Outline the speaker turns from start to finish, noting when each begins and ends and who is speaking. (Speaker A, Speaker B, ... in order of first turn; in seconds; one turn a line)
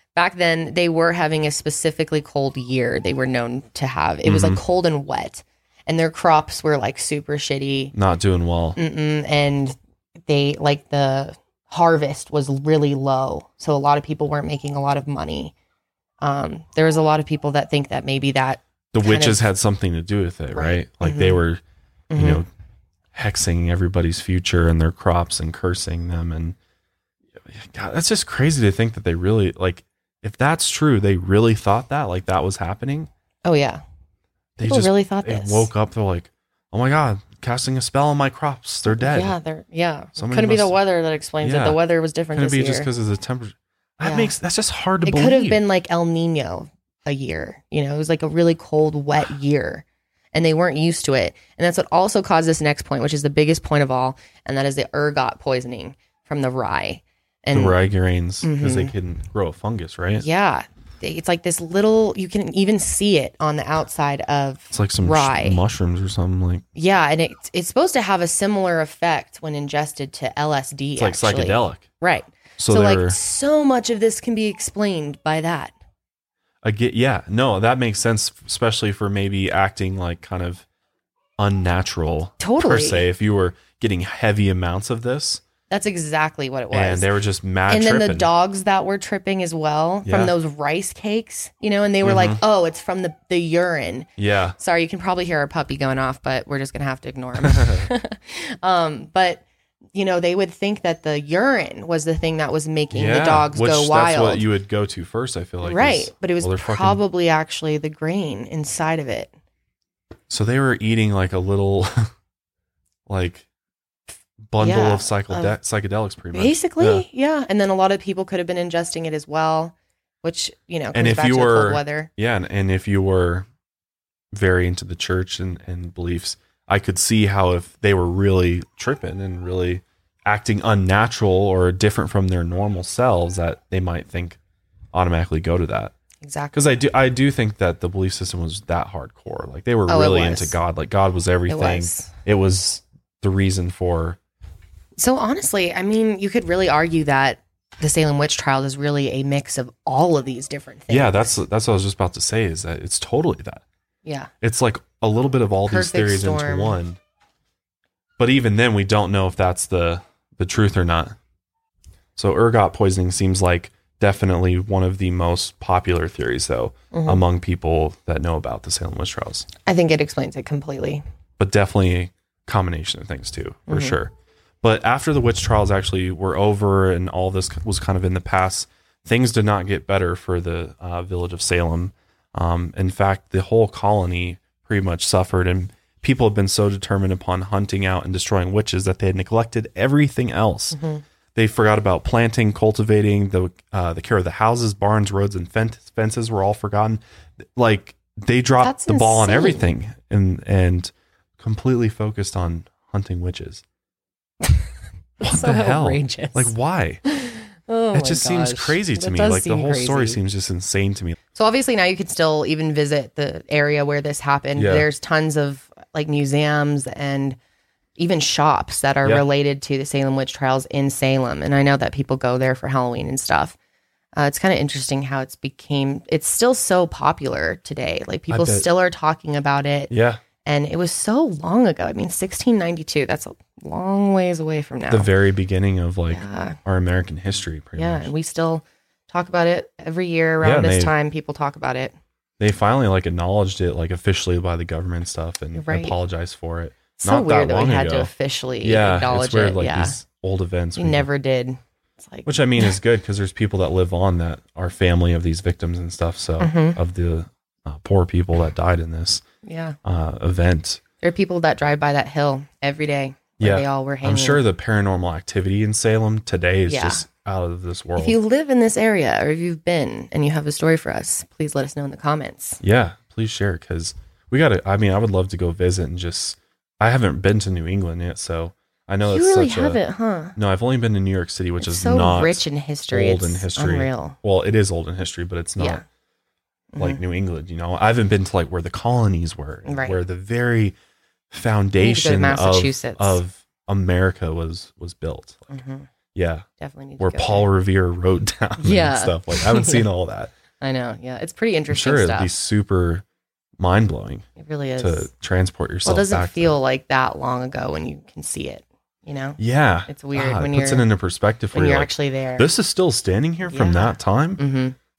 Speaker A: 0.1-7.9
Speaker B: 4.2-4.6
Speaker B: 7.9-8.8
Speaker A: 8.8-9.8
Speaker A: 10.3-15.5
Speaker A: 16.2-19.4
Speaker B: 18.9-21.6
Speaker A: 20.5-21.4
Speaker A: 22.1-22.4
Speaker B: 22.1-22.5
Speaker B: 23.1-26.6
Speaker B: 27.4-33.1
Speaker A: 33.4-33.8
Speaker B: 34.6-39.4
Speaker A: 34.6-35.7
Speaker A: 38.9-42.9
Speaker B: 40.1-40.8
Speaker B: 41.4-41.8
Speaker B: 42.3-45.6
Speaker A: 44.0-44.3
Speaker A: 45.0-57.8
Speaker B: 57.5-60.2
Speaker A: 58.4-58.9
Speaker A: 60.2-65.6
Speaker B: 64.7-66.6
Speaker A: 66.7-75.7
Speaker B: 71.0-71.9
Speaker B: 72.6-73.2
Speaker B: 76.6-80.6
Speaker B: 81.4-85.4
Speaker A: 82.4-83.0
Speaker A: 85.7-87.1
Speaker B: 86.7-88.3
Speaker A: 87.7-104.4
Speaker B: 90.0-90.3
Speaker B: 92.0-92.4
Speaker B: 94.2-94.6
Speaker B: 97.4-97.9
Speaker B: 102.9-107.0
Speaker A: 105.6-109.3
Speaker B: 110.3-112.1
Speaker B: 113.1-113.5
Speaker B: 114.5-117.0
Speaker A: 114.6-115.5
Speaker A: 116.3-122.1
Speaker B: 120.9-123.5
Speaker B: 124.3-134.4
Speaker B: 134.9-135.9
Speaker A: 136.2-136.7
Speaker B: 136.5-144.2
Speaker A: 139.9-140.6
Speaker A: 141.5-142.1
Speaker A: 145.0-151.4
Speaker B: 150.9-153.6
Speaker A: 154.0-154.3
Speaker B: 154.4-157.0
Speaker A: 155.7-156.8
Speaker B: 158.2-161.2
Speaker B: 162.2-169.5
Speaker A: 166.9-167.2
Speaker A: 169.6-171.0
Speaker B: 171.4-190.8
Speaker A: 173.7-174.0
Speaker A: 190.7-191.0
Speaker B: 191.3-197.0
Speaker B: 197.5-203.6
Speaker A: 198.6-199.7
Speaker A: 205.2-206.5
Speaker B: 205.2-207.0
Speaker A: 207.1-210.2
Speaker B: 207.9-211.2
Speaker A: 211.3-217.4
Speaker B: 214.6-214.9
Speaker A: 218.0-223.6
Speaker A: 224.2-229.9
Speaker B: 228.3-228.7
Speaker B: 229.9-230.2
Speaker A: 230.4-235.1
Speaker B: 234.9-238.1
Speaker A: 236.1-236.6
Speaker A: 237.8-241.9
Speaker B: 240.4-240.9
Speaker B: 242.4-251.1
Speaker A: 245.5-245.9
Speaker A: 247.0-250.0
Speaker A: 250.8-252.8
Speaker B: 252.2-259.2
Speaker A: 256.4-256.8
Speaker A: 259.4-259.8
Speaker B: 259.8-260.8
Speaker A: 261.0-264.4
Speaker B: 263.4-268.2
Speaker A: 266.7-267.1
Speaker A: 268.0-272.6
Speaker B: 272.6-279.8
Speaker A: 279.0-280.3
Speaker B: 280.4-285.8
Speaker A: 281.6-284.2
Speaker A: 286.7-287.0
Speaker B: 286.8-290.7
Speaker A: 289.6-290.0
Speaker B: 291.3-295.5
Speaker A: 291.8-293.2
Speaker A: 295.5-295.9
Speaker B: 296.1-296.4
Speaker A: 296.6-297.5
Speaker B: 297.0-300.3
Speaker A: 298.6-299.8
Speaker A: 300.6-302.3
Speaker B: 301.7-303.0
Speaker B: 303.6-304.3
Speaker A: 304.4-305.1
Speaker B: 304.8-306.6
Speaker A: 305.8-310.9
Speaker B: 309.4-314.4
Speaker A: 311.5-312.5
Speaker A: 313.4-314.8